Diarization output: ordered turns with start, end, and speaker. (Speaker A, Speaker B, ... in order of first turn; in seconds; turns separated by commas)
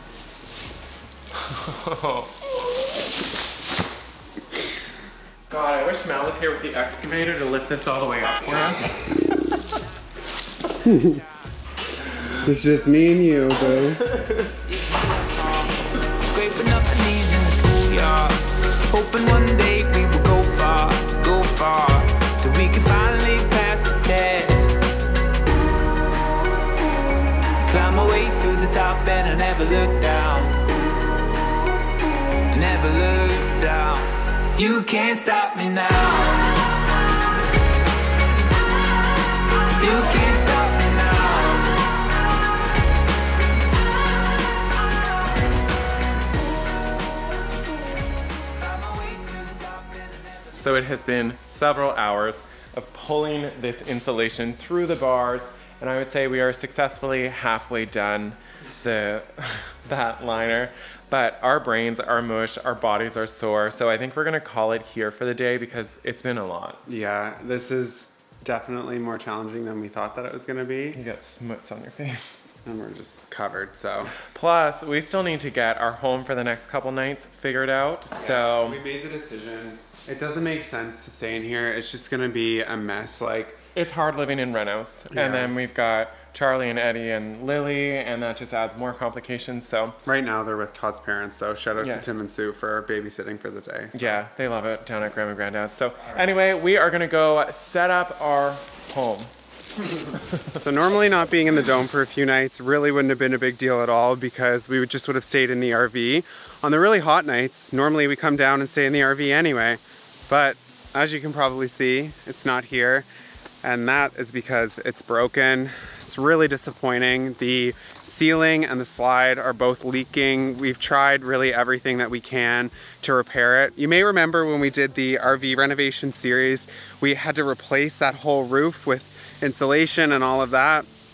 Speaker A: 1.4-2.9, Speaker A: 5.5-9.2, Speaker B: 10.8-11.2, Speaker B: 12.2-14.1, Speaker A: 14.2-14.5, Speaker C: 14.6-24.7, Speaker C: 27.6-30.7, Speaker C: 32.5-36.9, Speaker C: 39.8-42.1, Speaker C: 48.4-50.6, Speaker A: 50.6-66.8, Speaker B: 66.9-71.0, Speaker A: 71.0-72.3, Speaker B: 72.6-74.1, Speaker A: 74.2-78.8, Speaker B: 78.2-83.6, Speaker A: 83.8-90.0, Speaker B: 85.1-85.5, Speaker B: 90.0-94.2, Speaker A: 91.8-92.0, Speaker A: 93.9-99.3, Speaker B: 100.5-113.1, Speaker B: 113.6-130.9